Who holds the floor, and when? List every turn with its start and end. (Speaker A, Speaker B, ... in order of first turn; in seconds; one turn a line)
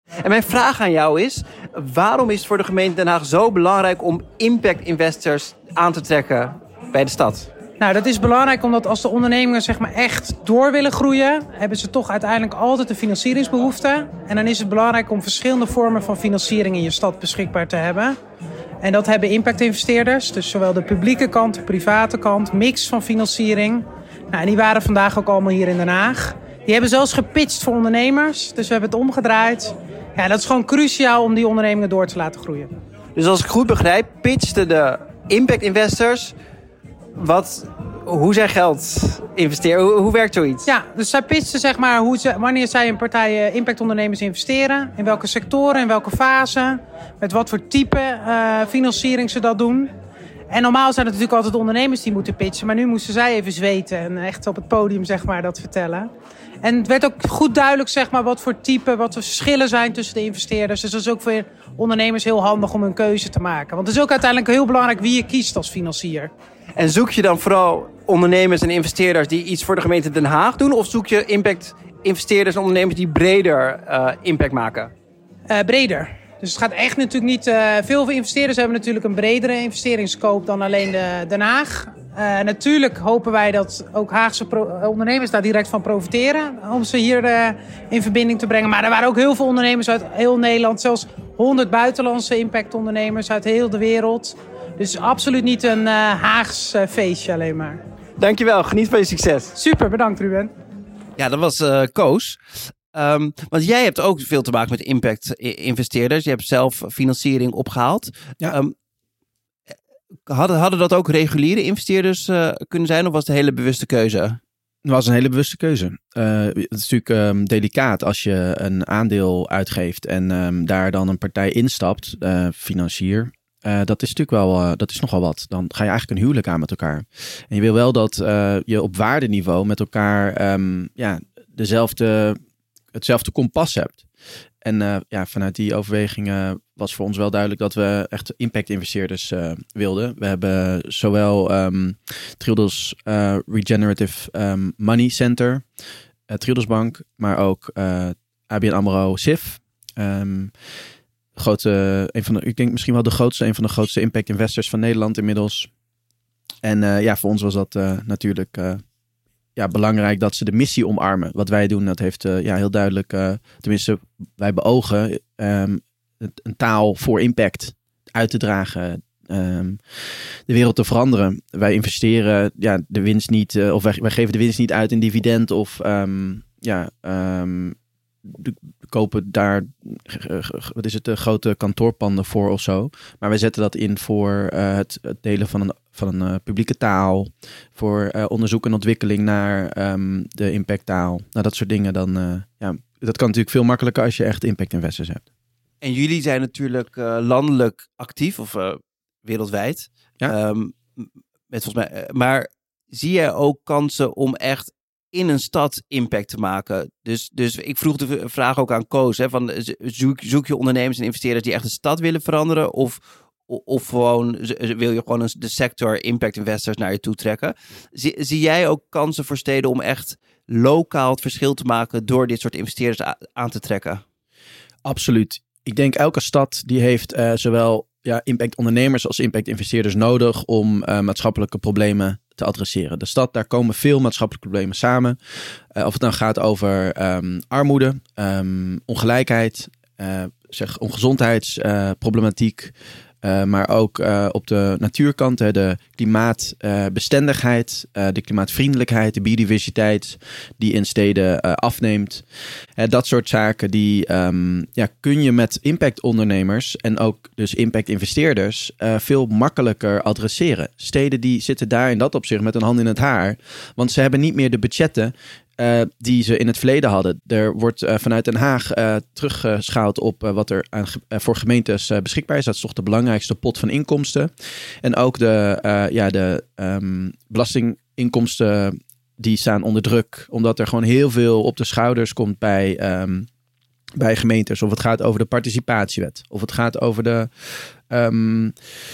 Speaker A: 0.2-7.5
Speaker B: 7.8-18.1
Speaker B: 18.8-32.7
Speaker A: 33.1-36.3
Speaker A: 37.2-40.7
Speaker B: 40.6-49.9
Speaker B: 50.5-56.1
Speaker B: 56.6-66.3
Speaker A: 66.8-74.9
Speaker B: 75.5-97.8
Speaker A: 98.2-99.5
Speaker B: 99.5-100.5
Speaker A: 101.2-108.7
Speaker A: 110.3-114.4
Speaker C: 114.8-132.4
Speaker C: 132.9-134.0
Speaker C: 134.6-145.6
Speaker C: 146.3-150.5
Speaker C: 151.3-155.7
Speaker C: 156.6-158.8
Speaker C: 159.6-195.2
Speaker A: 195.8-224.0
Speaker C: 224.8-252.2
Speaker C: 252.8-274.3
Speaker C: 274.8-283.3
Speaker C: 284.0-288.5